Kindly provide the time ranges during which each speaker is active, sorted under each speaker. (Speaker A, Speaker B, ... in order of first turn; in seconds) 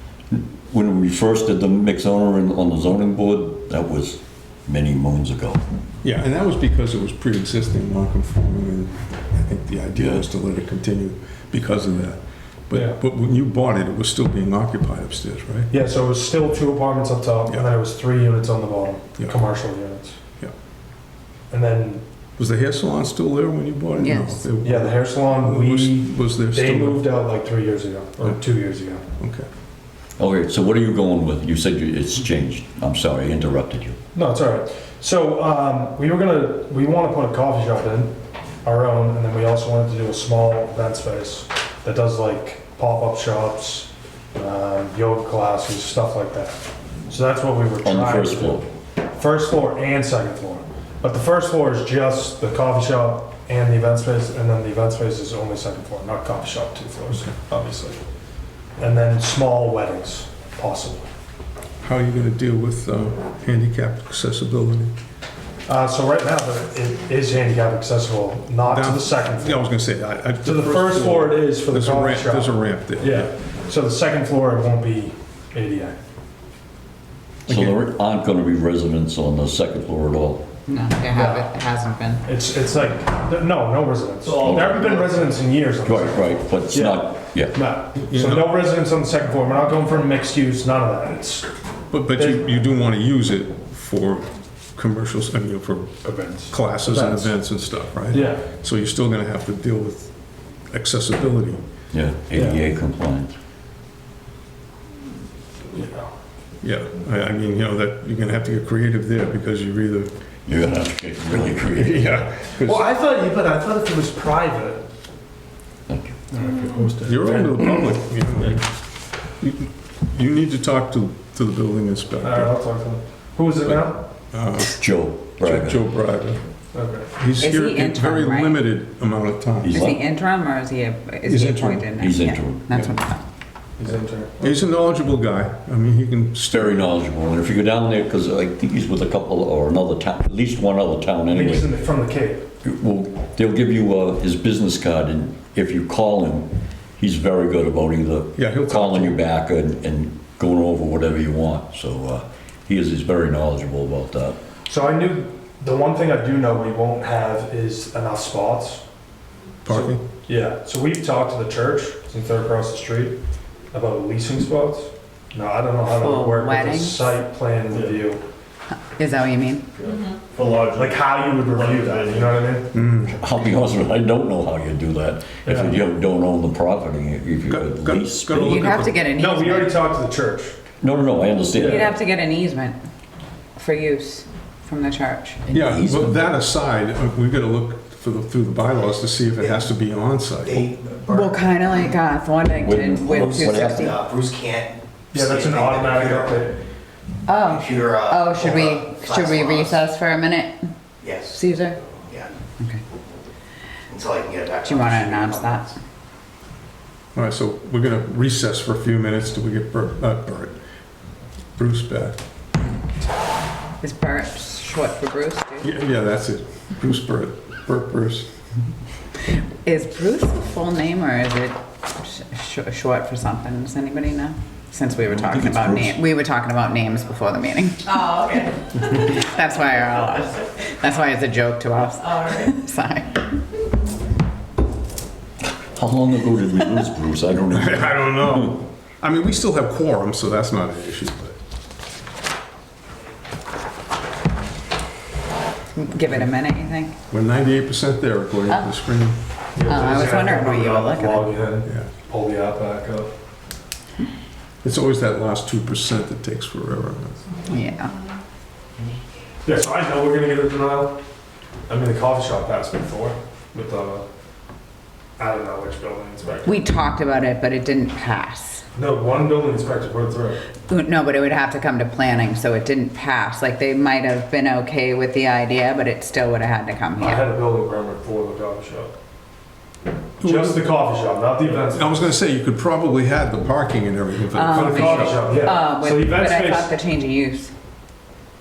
Speaker A: 0.3-5.6, 10.0-10.2, 30.2-34.0, 47.8-48.7, 77.5-80.5, 84.4-85.0, 85.8-87.6, 101.9-103.4, 110.5-112.3, 115.9-116.2, 124.6-125.8, 129.6-130.0, 132.0-132.7, 136.5-141.7, 142.6-154.4, 173.1-178.8, 180.8-181.9, 185.5-186.2, 192.6-193.9, 225.1-226.0, 235.7-238.6
Speaker B: 6.0-15.7, 22.4-27.1, 29.2-29.5, 61.8-64.9, 68.7-73.3, 77.5-77.8, 88.1-88.6, 91.9-100.1, 100.7-101.7, 106.6-110.1, 111.7-112.9, 117.0-118.8, 119.4-122.5, 123.7-124.8, 125.4-126.4, 127.2-129.9, 131.3-131.9, 132.7-132.9, 134.4-136.9, 148.4-149.2, 159.7-160.0, 172.7-173.2, 177.5-179.0, 185.5-190.7, 207.2-210.6, 211.6-212.2, 215.6-218.3, 237.5-241.4, 247.1-249.2, 251.7-251.9, 254.6-257.2, 280.2-280.7, 281.4-285.3
Speaker C: 12.7-13.0, 15.7-20.2, 21.5-22.0, 24.6-29.0, 34.1-46.6, 47.1-58.0, 58.8-61.1, 65.7-69.6, 70.4-76.0, 81.1-81.5, 82.2-91.5, 92.2-92.4, 96.0-97.3, 98.1-98.4, 102.3-102.6, 105.7-106.1, 112.6-114.8, 116.3-118.6, 122.2-124.0, 126.7-127.1, 133.8-134.5, 141.3-142.4, 154.7-158.8, 159.7-163.2, 163.7-168.2, 170.7-172.7, 175.4-175.8, 179.1-180.6, 181.6-181.9, 195.1-196.6, 249.6-253.1, 259.4-261.0, 261.7-264.1, 265.2-266.6, 268.8-270.4, 277.0-278.9, 280.2-282.1, 284.5-286.8
Speaker D: 24.0-24.5, 80.7-82.2, 127.4-128.6, 129.7-133.2, 165.9-167.1, 168.9-169.7, 178.3-179.8, 181.6-182.8, 183.6-185.4, 191.1-194.0, 197.3-200.7, 201.2-201.8, 204.6-205.8, 213.8-215.7, 219.6-233.3, 245.7-247.0, 249.7-251.3, 257.5-257.9, 266.4-268.6, 270.7-277.3, 284.3-287.5
Speaker E: 84.2-85.2, 169.8-172.4, 190.4-191.8, 193.1-196.4, 197.5-199.8, 201.0-201.4, 203.9-205.7